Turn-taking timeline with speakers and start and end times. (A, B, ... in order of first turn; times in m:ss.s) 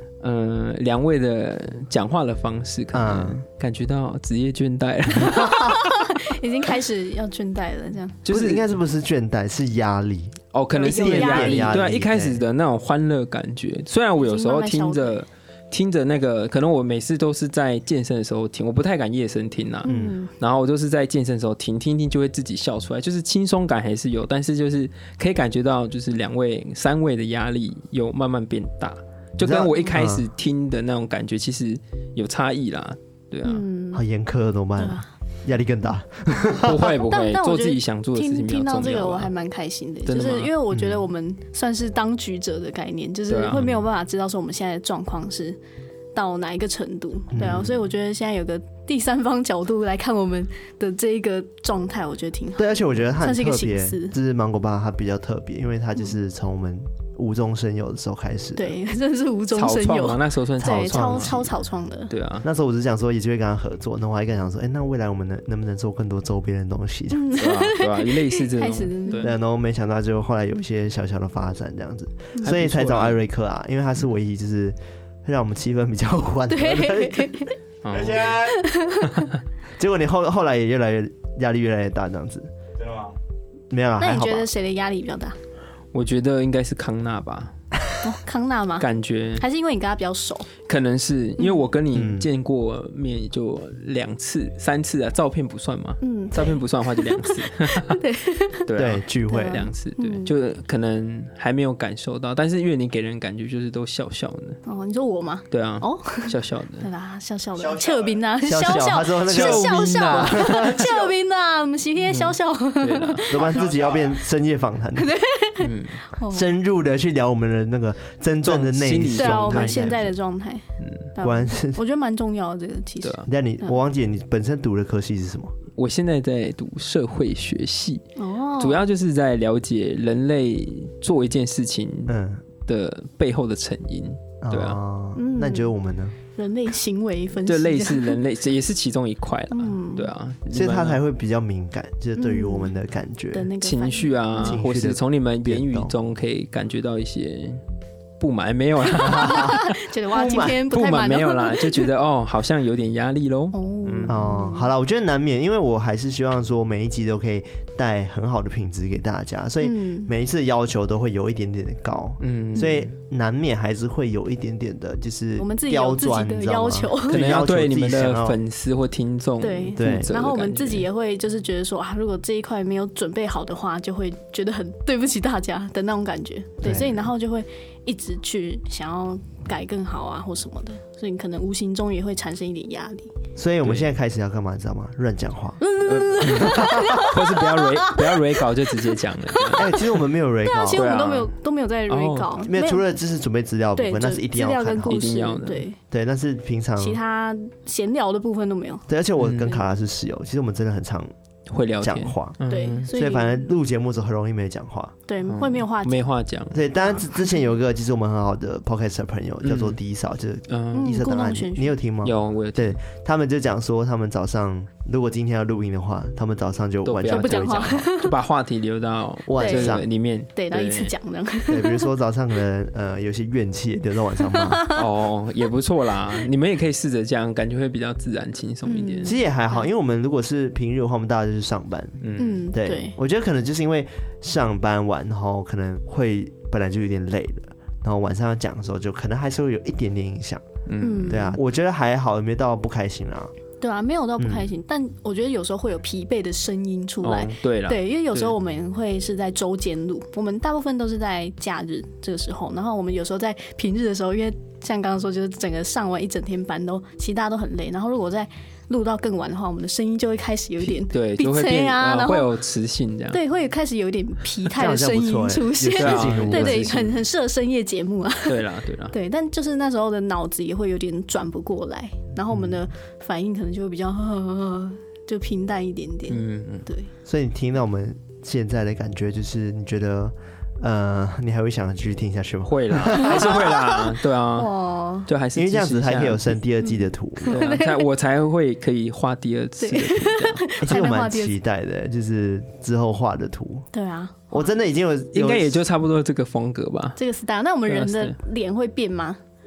0:00.2-0:06.0 A
0:02.9-0:03.4 B
0:05.3-0:05.6 B
0:05.5-0:08.2 C
0:08.2-0:08.7 A
0:08.3-0:12.4 B
0:10.5-0:33.6 A
0:10.8-0:11.8 C
0:14.2-0:15.2 C
0:19.8-0:20.3 C
0:19.9-0:20.1 B
0:29.4-0:30.3 B
0:33.4-0:34.0 C
0:33.9-0:37.0 B
0:34.8-0:35.1 C
0:36.6-0:39.3 A
0:37.1-0:45.6 C
0:40.0-0:40.6 A
0:40.7-0:41.0 B
0:43.3-0:43.8 A
0:46.1-0:54.2 C
0:47.3-0:47.8 B
0:52.6-0:58.8 B
0:58.6-1:02.1 C
0:59.5-1:01.6 A
1:00.6-1:01.3 B
1:02.1-1:02.5 A
1:02.4-1:07.3 B
1:07.1-1:09.3 C
1:07.3-1:09.3 A
1:09.2-1:17.5 B
1:12.4-1:13.2 A
1:16.5-1:17.6 C
1:17.8-1:18.4 A
1:17.9-1:18.7 D
1:18.5-1:19.3 C
1:19.8-1:22.5 B
1:22.8-1:23.2 D
1:23.7-1:24.5 B
1:24.0-1:25.4 C
1:25.9-1:27.5 A
1:28.0-1:28.9 C
1:28.8-1:29.4 A
1:29.4-1:30.5 C
1:30.6-1:38.0 A
1:31.9-1:32.3 B
1:36.0-1:38.6 C
1:38.7-1:44.6 A
1:38.7-1:39.7 B
1:39.3-1:40.3 C
1:44.6-1:53.2 C
1:45.5-1:46.9 A
1:47.6-1:48.4 D
1:48.4-1:50.8 B
1:48.7-1:50.8 A
1:50.7-1:51.1 D
1:52.1-1:53.3 A
1:53.3-1:54.2 D
1:53.3-1:55.1 B
1:55.0-1:56.5 C
1:55.6-1:56.0 A
1:56.3-2:00.0 B
1:58.4-2:00.1 A
1:59.1-2:03.8 C
2:01.2-2:01.8 B
2:03.0-2:03.3 A
2:03.3-2:05.5 B
2:05.8-2:08.0 A
2:08.2-2:08.8 C
2:08.6-2:14.8 A
2:12.1-2:12.4 B
2:14.4-2:16.2 B
2:15.1-2:15.8 C
2:16.3-2:18.2 C
2:17.4-2:21.0 A
2:19.5-2:20.1 C
2:20.5-2:23.5 B
2:22.2-2:22.7 C
2:23.3-2:24.6 C
2:23.6-2:27.6 A
2:24.4-2:25.9 B
2:28.2-2:29.7 A
2:28.9-2:29.5 B
2:29.0-2:31.9 C
2:30.1-2:30.6 B
2:30.6-2:34.2 A
2:33.5-2:34.7 C
2:34.0-2:48.4 B
2:39.6-2:40.1 C
2:42.2-2:42.9 A
2:42.6-2:42.8 C
2:45.4-2:47.2 C
2:47.1-2:50.9 A
2:49.4-3:03.1 C
2:49.8-2:50.1 B
2:56.6-2:56.9 B
3:03.4-3:05.6 B
3:03.6-3:03.9 A
3:05.6-3:08.4 C
3:05.9-3:09.8 A
3:06.2-3:07.1 B
3:09.3-3:09.6 C
3:09.5-3:10.9 B
3:10.4-3:12.9 C
3:10.8-3:11.3 A
3:11.9-3:12.4 A
3:12.4-3:15.0 B
3:13.8-3:15.8 C
3:14.9-3:15.6 A
3:15.9-3:17.0 B
3:16.8-3:18.9 C
3:18.9-3:21.1 B
3:19.2-3:19.6 A
3:21.5-3:22.9 A
3:21.8-3:22.4 B
3:22.5-3:23.5 C
3:22.9-3:24.9 B
3:25.1-3:26.0 C
3:25.3-3:26.6 A
3:26.5-3:37.9 B
3:26.8-3:27.5 C
3:29.4-3:29.8 A
3:30.5-3:30.9 A
3:30.7-3:31.8 C
3:32.0-3:32.8 A
3:36.8-3:40.9 A
3:37.1-3:38.1 C
3:39.3-3:39.9 B
3:39.3-3:39.8 C
3:40.3-3:41.9 C
3:41.5-3:44.6 B
3:44.3-3:44.8 C
3:44.7-3:49.2 A
3:48.6-3:49.7 C
3:49.0-4:00.4 B
3:52.0-3:52.5 A
3:52.2-3:53.0 C
4:00.7-4:01.2 A
4:00.8-4:01.4 C
4:01.1-4:03.3 B
4:03.6-4:22.3 C
4:04.2-4:04.5 B
4:07.0-4:08.3 A
4:20.6-4:23.2 A
4:23.1-4:36.9 C
4:24.5-4:26.7 B
4:25.8-4:27.0 A
4:28.2-4:28.9 A
4:36.1-4:36.7 A
4:37.0-4:43.4 B
4:42.5-4:44.5 A
4:42.9-4:45.1 C
4:45.0-4:46.4 A
4:45.3-4:47.4 B
4:46.6-4:47.9 C
4:47.3-4:50.5 A
4:49.6-4:51.4 C
4:50.6-4:53.7 B
4:53.7-4:54.5 C
4:54.3-4:55.6 B
4:55.1-4:57.0 A
4:57.0-4:59.2 C
4:57.7-4:58.2 A